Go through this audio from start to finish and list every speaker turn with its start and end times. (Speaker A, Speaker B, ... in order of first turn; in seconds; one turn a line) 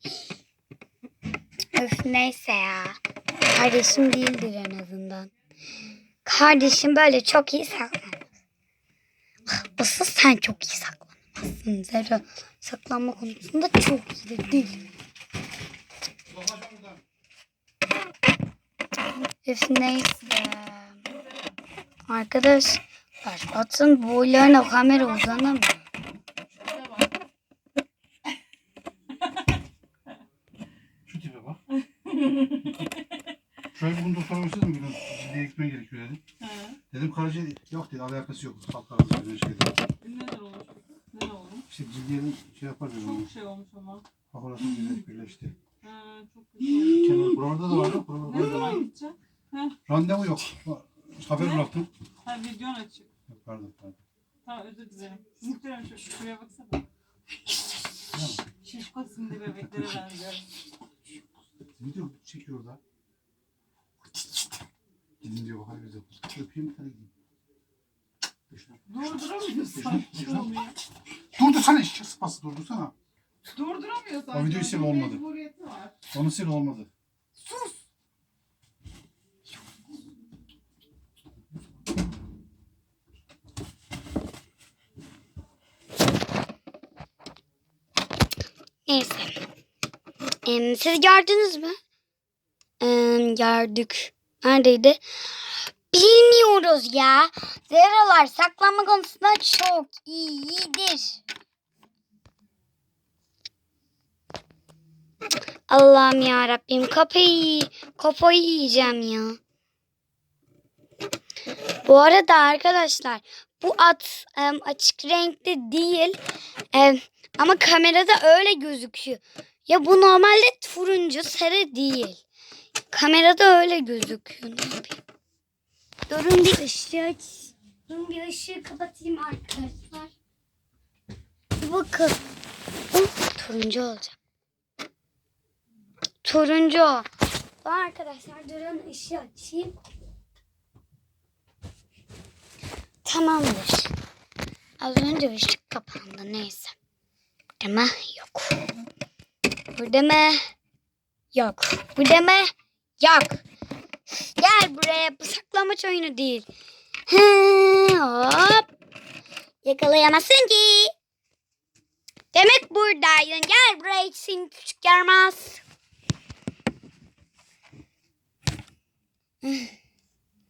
Speaker A: 1.7-5.3
Speaker A: 6.2-8.2
Speaker A: 9.5-14.9
Speaker B: 16.4-16.9
Speaker A: 19.4-21.0
Speaker A: 22.1-25.8
Speaker B: 31.1-31.6
Speaker C: 32.3-32.6
Speaker B: 33.7-36.2
Speaker C: 36.4-36.8
Speaker B: 36.9-39.8
Speaker C: 40.0-41.7
Speaker B: 41.7-43.3
Speaker C: 43.0-44.0
Speaker B: 44.3-45.5
Speaker C: 45.8-47.1
Speaker A: 46.6-47.7
Speaker B: 47.0-48.9
Speaker C: 48.2-49.8
Speaker A: 48.4-48.9
Speaker B: 49.9-51.9
Speaker C: 51.3-51.7
Speaker C: 52.2-53.1
Speaker B: 53.3-54.0
Speaker C: 54.4-56.9
Speaker B: 58.1-58.5
Speaker C: 58.6-60.6
Speaker B: 59.5-60.0
Speaker B: 61.8-62.8
Speaker B: 65.2-67.1
Speaker B: 68.5-70.5
Speaker C: 68.9-70.8
Speaker B: 71.3-72.9
Speaker C: 73.5-75.9
Speaker B: 74.3-75.3
Speaker B: 76.0-76.9
Speaker C: 77.4-77.7
Speaker A: 88.8-89.4
Speaker A: 90.5-91.8
Speaker A: 92.8-101.2
Speaker A: 105.7-109.4
Speaker A: 111.8-116.2
Speaker A: 116.7-122.2
Speaker A: 122.9-125.0
Speaker A: 126.1-130.1
Speaker A: 131.6-132.2
Speaker A: 132.9-134.2
Speaker A: 136.2-137.1
Speaker A: 137.6-139.8
Speaker A: 143.0-143.9
Speaker A: 144.8-146.7
Speaker A: 147.6-148.7
Speaker A: 149.7-150.4
Speaker A: 151.3-153.4
Speaker A: 154.1-156.4
Speaker A: 157.1-158.7
Speaker A: 159.6-160.9
Speaker A: 162.3-165.6
Speaker A: 169.4-169.7